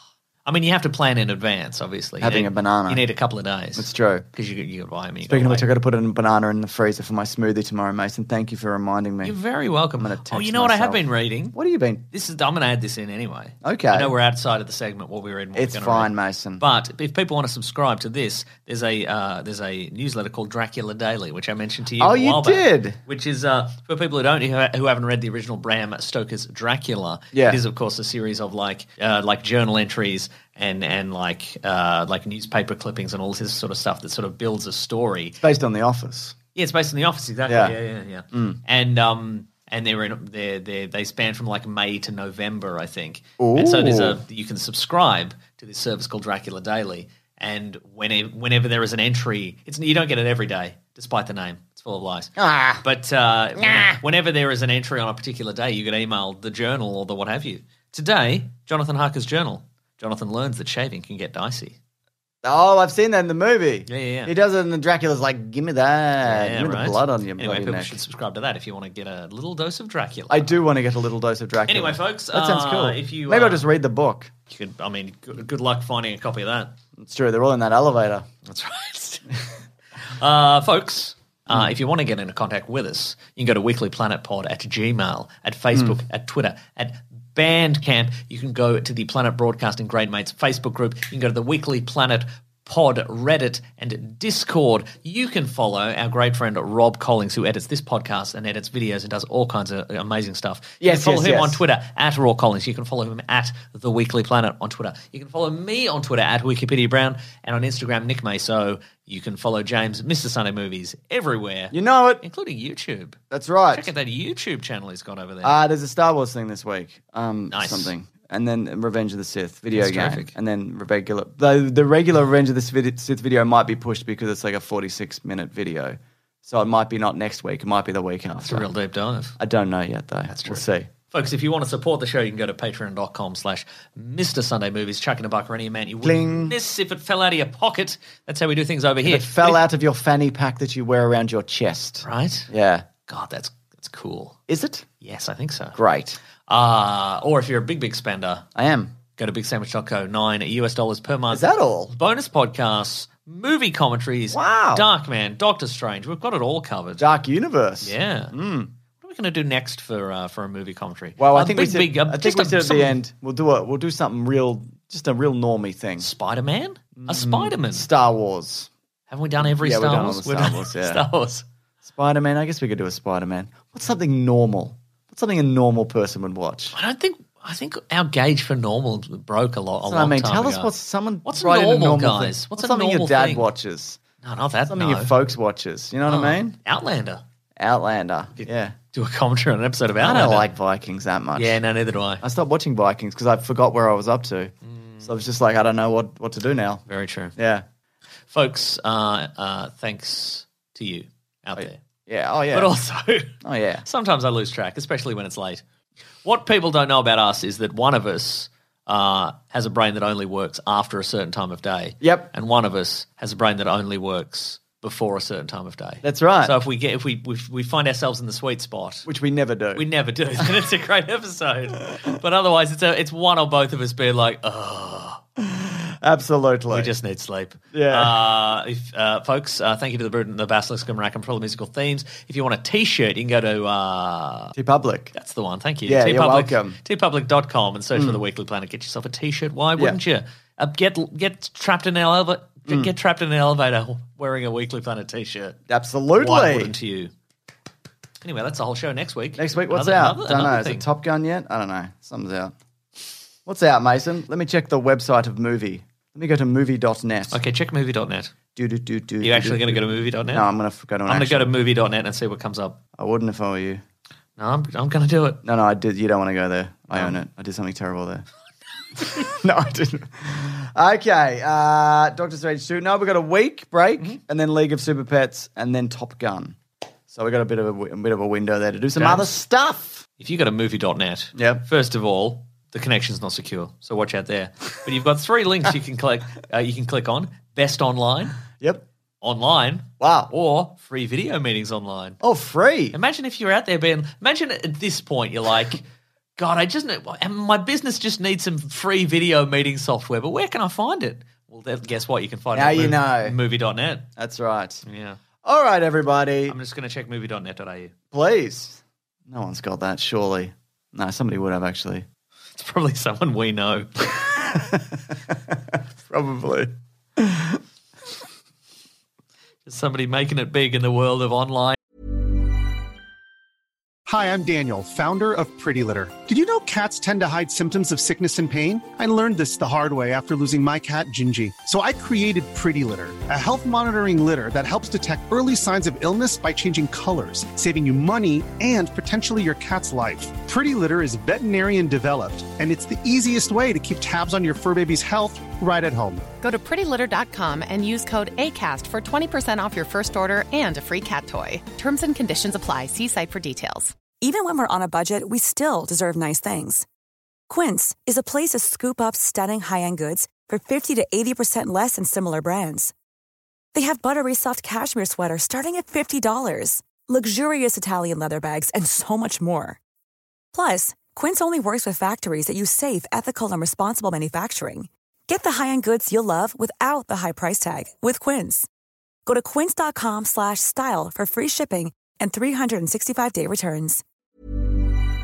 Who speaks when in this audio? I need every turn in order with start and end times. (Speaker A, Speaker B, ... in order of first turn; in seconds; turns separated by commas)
Speaker A: 0.4-5.7, Speaker B: 2.2-3.0, Speaker B: 3.7-4.3, Speaker B: 5.3-9.3, Speaker A: 9.2-11.5, Speaker B: 10.0-12.0, Speaker A: 12.1-35.4, Speaker B: 13.6-14.1, Speaker B: 15.5-16.6, Speaker B: 22.0-23.0, Speaker B: 27.3-27.6, Speaker B: 35.4-36.4, Speaker A: 36.5-61.8, Speaker B: 37.5-37.7, Speaker B: 38.3-38.6, Speaker B: 43.4-44.2, Speaker B: 52.4-52.8, Speaker B: 53.6-53.9, Speaker B: 62.4-68.0, Speaker A: 63.9-64.3, Speaker A: 66.2-70.6, Speaker B: 70.3-74.3, Speaker A: 71.7-73.6, Speaker A: 74.5-76.7, Speaker B: 77.0-78.3, Speaker A: 78.5-79.3, Speaker A: 80.0-113.2, Speaker B: 100.8-101.6, Speaker B: 111.7-112.2, Speaker B: 113.3-113.9, Speaker A: 113.7-115.6, Speaker B: 115.4-128.7, Speaker A: 117.5-117.9, Speaker A: 119.7-120.3, Speaker A: 128.4-129.3, Speaker B: 129.4-130.9, Speaker A: 130.3-139.6, Speaker B: 136.0-136.5, Speaker B: 139.0-142.9, Speaker A: 142.0-142.5, Speaker A: 143.1-144.3, Speaker B: 144.5-144.9, Speaker A: 145.0-145.8, Speaker B: 145.7-146.2, Speaker A: 146.5-148.4, Speaker B: 148.6-148.9, Speaker A: 149.2-157.0, Speaker B: 151.3-151.9, Speaker B: 154.3-154.8, Speaker B: 157.0-158.7, Speaker A: 157.8-158.3, Speaker A: 159.0-163.0, Speaker B: 161.2-166.1, Speaker A: 166.0-167.9, Speaker B: 166.9-168.7, Speaker A: 169.1-171.4, Speaker B: 169.4-171.0, Speaker B: 171.8-176.8, Speaker A: 176.7-180.7, Speaker B: 179.8-184.0, Speaker A: 181.2-183.5, Speaker A: 184.2-185.1, Speaker B: 184.7-186.6, Speaker A: 186.1-187.2, Speaker B: 187.6-188.8, Speaker A: 188.4-190.5, Speaker B: 190.0-191.6, Speaker A: 191.3-192.2, Speaker B: 192.2-196.8, Speaker A: 194.7-195.1, Speaker A: 196.9-197.3, Speaker B: 197.3-197.6, Speaker A: 198.3-201.8, Speaker B: 201.6-202.7, Speaker A: 202.5-203.3, Speaker B: 203.4-203.8, Speaker A: 203.8-205.6, Speaker A: 206.2-219.1, Speaker B: 212.0-212.3, Speaker B: 216.0-216.6, Speaker B: 219.0-219.8, Speaker A: 219.7-225.2, Speaker B: 225.4-226.9, Speaker A: 226.7-234.5, Speaker B: 227.7-228.2, Speaker B: 234.6-235.1, Speaker A: 235.1-245.6, Speaker B: 235.8-236.8, Speaker B: 237.9-238.2, Speaker B: 245.7-246.7, Speaker A: 246.2-247.1, Speaker A: 248.2-250.8, Speaker B: 249.3-252.5, Speaker B: 253.4-257.4, Speaker A: 257.3-258.3, Speaker B: 258.6-261.5, Speaker A: 259.2-260.5, Speaker A: 261.1-262.8, Speaker B: 263.0-263.8, Speaker A: 264.4-265.4, Speaker B: 265.4-268.2, Speaker B: 269.0-276.6, Speaker B: 277.1-280.0, Speaker A: 278.9-279.3, Speaker A: 280.2-288.4, Speaker B: 281.4-281.6, Speaker B: 288.5-288.8, Speaker A: 289.2-292.2, Speaker B: 290.0-290.3, Speaker B: 292.2-292.9, Speaker A: 292.9-295.8, Speaker A: 296.4-304.1, Speaker B: 302.5-303.4, Speaker B: 304.2-304.8, Speaker A: 304.9-305.2, Speaker B: 305.4-306.6, Speaker A: 306.5-307.9, Speaker B: 308.1-312.1, Speaker A: 312.6-314.1, Speaker B: 314.6-317.6, Speaker A: 319.6-321.8, Speaker C: 324.1-346.2, Speaker D: 346.4-353.9, Speaker E: 354.2-356.8, Speaker E: 357.5-362.9, Speaker E: 363.7-369.8, Speaker E: 370.5-378.7, Speaker E: 379.2-384.0